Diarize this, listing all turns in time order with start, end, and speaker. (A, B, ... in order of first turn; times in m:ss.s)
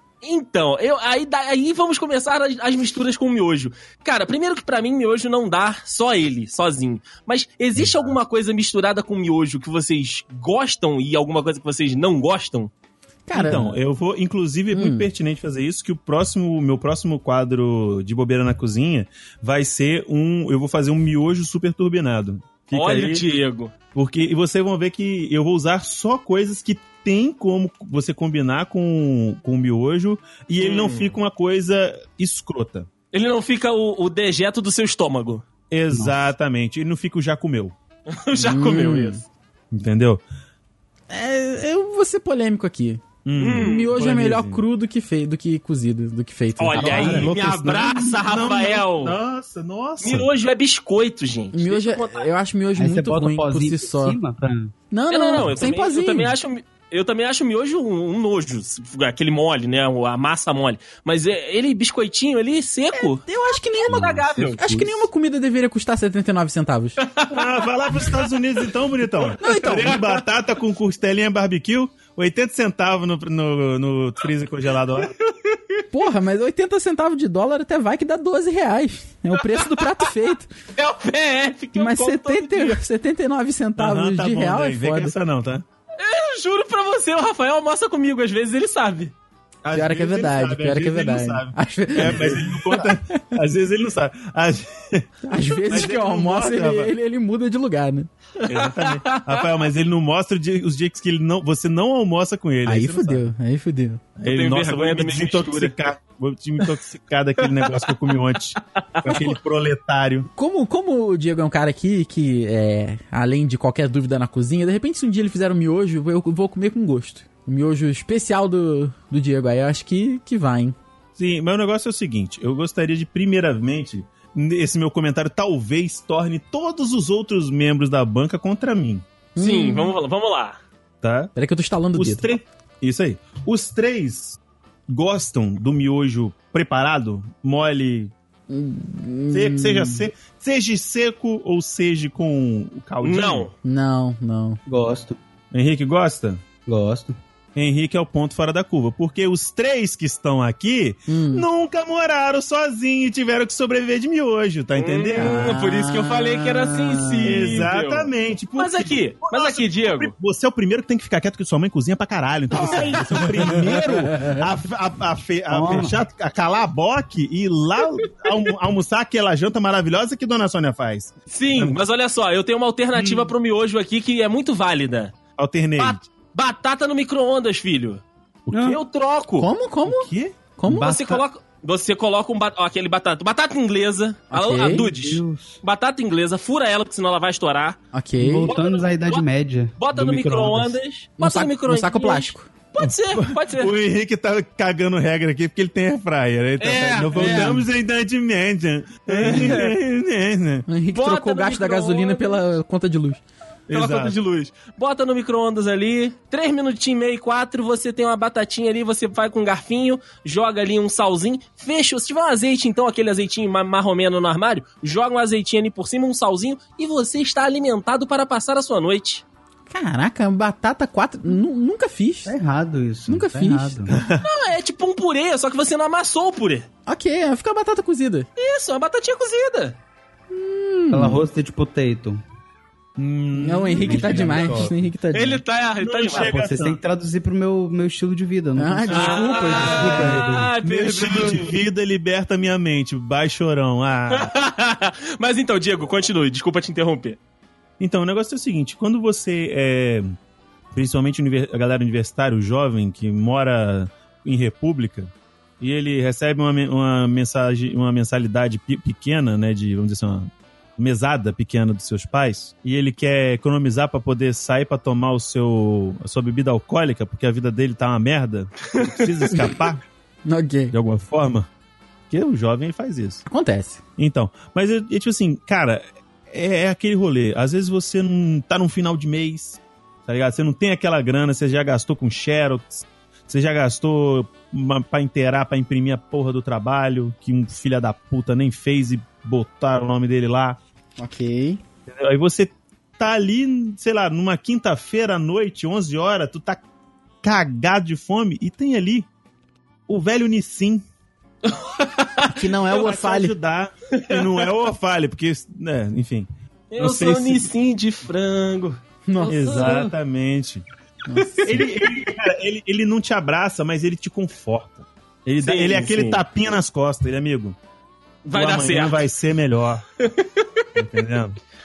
0:00.2-0:12.7 A
0:07.8-0:08.0 B
0:13.3-0:13.7 C
0:13.3-0:23.2 B
0:14.7-0:15.1 C
0:22.7-0:23.7 A
0:23.9-0:32.9 B
0:30.6-0:31.2 A
0:33.1-0:35.4 A
0:35.7-0:37.7 B
0:35.9-0:36.2 D
0:38.1-0:39.2 A
0:38.3-0:39.2 C
0:39.7-0:40.2 B
0:41.1-0:47.3 C
0:43.2-0:44.6 B
0:43.4-0:43.9 A
0:46.6-0:49.2 A
0:46.7-0:47.3 D
0:46.9-0:50.3 B
0:50.0-0:52.3 A
0:51.5-0:54.2 C
0:52.8-0:54.7 D
0:54.9-0:56.3 C
0:55.1-1:03.2 A
1:02.9-1:07.0 C
1:03.8-1:04.6 A
1:03.9-1:05.1 D
1:07.0-1:08.3 A
1:07.3-1:15.1 B
1:09.4-1:10.0 C
1:09.5-1:10.1 A
1:15.0-1:15.8 A
1:15.9-1:20.5 C
1:19.5-1:20.1 A
1:20.8-1:22.8 A
1:21.7-1:25.1 C
1:23.8-1:25.6 B
1:26.0-1:29.1 A
1:29.6-1:36.9 B
1:29.7-1:32.9 C
1:35.2-1:38.1 C
1:38.4-1:43.2 B
1:38.4-1:39.5 A
1:42.6-1:44.0 C
1:44.2-1:50.3 B
1:44.2-1:45.7 A
1:47.6-1:47.9 A
1:48.9-1:49.3 A
1:50.4-2:00.7 C
2:01.2-2:09.0 B
2:09.4-2:09.9 C
2:09.4-2:10.6 A
2:11.0-2:11.3 B
2:11.3-2:12.3 C
2:11.9-2:18.1 B
2:18.5-2:20.1 C
2:19.3-2:23.5 B
2:23.0-2:23.5 A
2:23.6-2:24.6 C
2:24.6-2:25.2 D
2:25.5-2:26.4 B
2:26.6-2:27.2 D
2:27.5-2:35.6 B
2:31.1-2:31.4 C
2:34.8-2:40.1 A
2:35.2-2:37.4 C
2:37.2-2:51.8 B
2:42.5-2:43.7 A
2:44.0-2:44.4 C
2:45.5-2:46.0 D
2:51.3-2:55.2 A
2:52.9-2:53.3 B
2:55.4-2:56.0 B
2:55.8-2:59.5 A
2:58.5-2:58.7 B
2:58.5-2:58.8 D
2:59.4-3:01.0 C
2:59.8-3:00.4 B
3:00.6-3:01.2 D
3:00.7-3:07.8 A
3:04.3-3:04.9 C
3:04.7-3:05.6 D
3:07.9-3:08.5 C
3:08.2-3:10.8 D
3:08.4-3:09.2 A
3:09.8-3:13.7 A
3:11.2-3:12.5 C
3:12.8-3:20.7 B
3:16.6-3:17.6 A
3:19.1-3:19.7 A
3:20.7-3:23.2 C
3:20.9-3:22.4 A
3:23.7-3:24.2 B
3:23.7-3:39.2 A
3:39.7-3:42.3 C
3:42.2-3:44.0 D
3:43.1-3:43.8 C
3:43.9-3:44.2 B
3:44.2-3:46.7 A
3:46.9-3:48.3 C
3:48.4-3:49.8 A
3:50.3-3:51.2 C
3:50.9-3:52.2 D
3:53.0-3:54.7 B
3:53.4-3:55.4 C
3:53.8-3:54.8 D
3:55.1-3:56.4 A
3:55.8-3:56.8 B
3:56.1-4:00.5 D
3:58.6-4:00.3 C
3:58.9-4:01.6 A
4:00.6-4:04.3 B
4:04.1-4:07.2 A
4:07.8-4:10.1 B
4:10.7-4:29.8 B
4:28.8-4:29.1 A
4:30.2-4:30.7 C
4:30.7-4:31.5 B
4:32.1-4:33.2 B
4:33.2-4:33.8 C
4:34.0-4:50.6 B
4:51.0-4:51.6 C
4:51.9-4:56.6 B
4:57.2-4:59.1 B
4:59.9-5:00.8 B
5:01.4-5:02.3 A
5:02.3-5:03.3 C
5:02.6-5:07.5 B
5:03.9-5:04.5 A
5:06.7-5:09.9 A
5:09.1-5:09.8 C
5:09.3-5:10.6 B
5:11.1-5:11.6 C
5:11.2-5:11.6 A
5:11.4-5:17.6 B
5:15.4-5:16.2 A
5:18.2-5:19.0 A
5:18.3-5:19.8 B
5:20.0-5:20.6 A
5:20.8-5:21.4 B